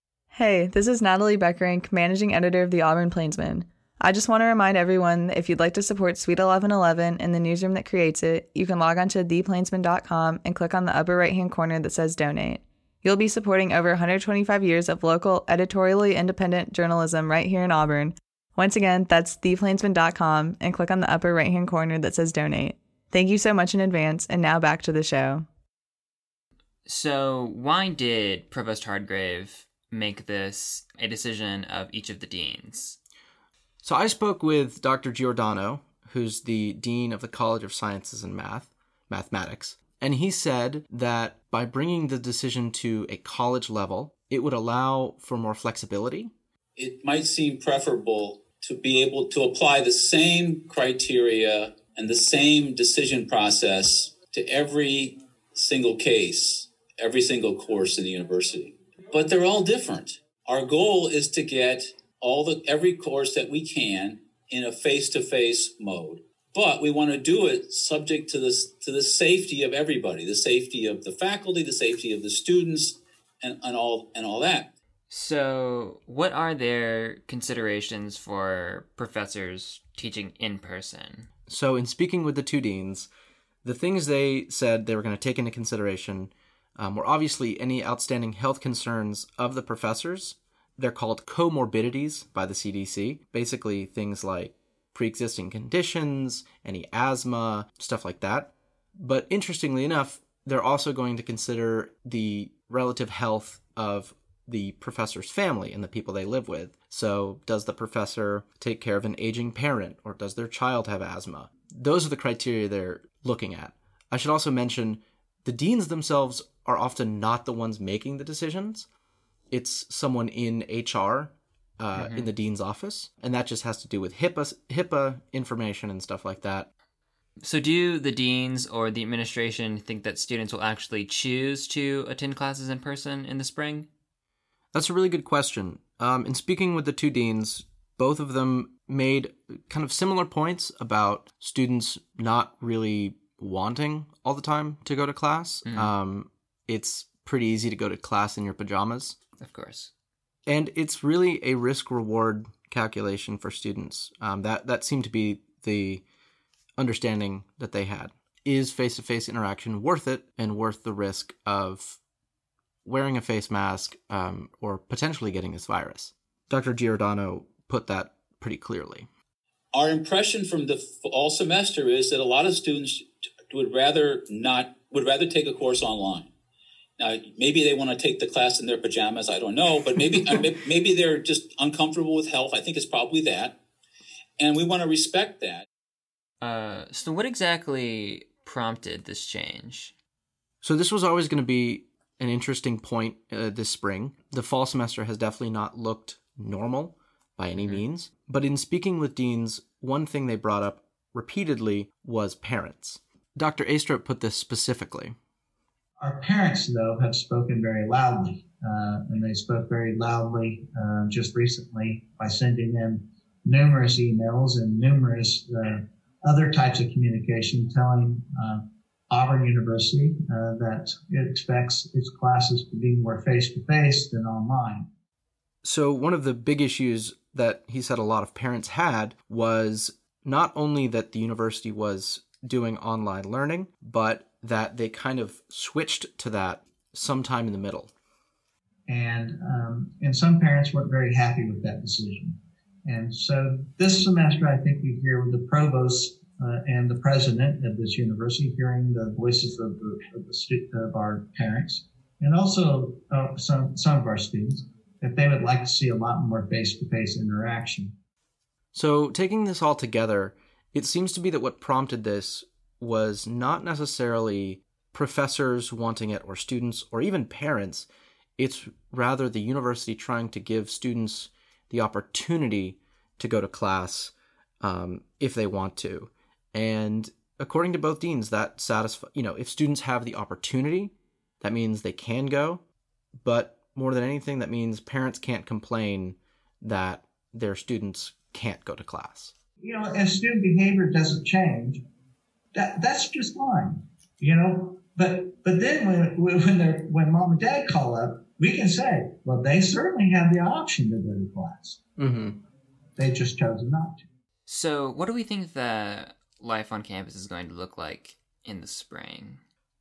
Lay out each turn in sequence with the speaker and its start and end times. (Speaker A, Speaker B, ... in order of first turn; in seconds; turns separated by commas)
Speaker A: 0.3-25.5, Speaker B: 26.9-33.0, Speaker C: 33.8-46.3, Speaker D: 46.8-74.7, Speaker B: 75.1-81.3, Speaker C: 81.5-83.1, Speaker C: 83.6-118.9, Speaker C: 119.5-126.7, Speaker B: 121.9-122.3, Speaker B: 127.4-133.9, Speaker C: 134.7-149.2, Speaker B: 145.7-145.9, Speaker B: 149.4-149.9, Speaker C: 150.5-156.0, Speaker C: 156.8-162.0, Speaker C: 162.8-169.1, Speaker D: 169.7-176.3, Speaker D: 177.0-183.6, Speaker D: 184.4-185.7, Speaker B: 186.4-189.9, Speaker C: 190.6-205.2, Speaker B: 197.6-197.8, Speaker E: 206.0-224.9, Speaker C: 225.6-237.9, Speaker E: 238.9-257.9, Speaker C: 258.7-282.6, Speaker C: 283.2-289.3, Speaker E: 289.6-291.8, Speaker E: 292.5-301.8, Speaker C: 302.0-302.4, Speaker E: 303.0-304.0, Speaker B: 304.5-309.4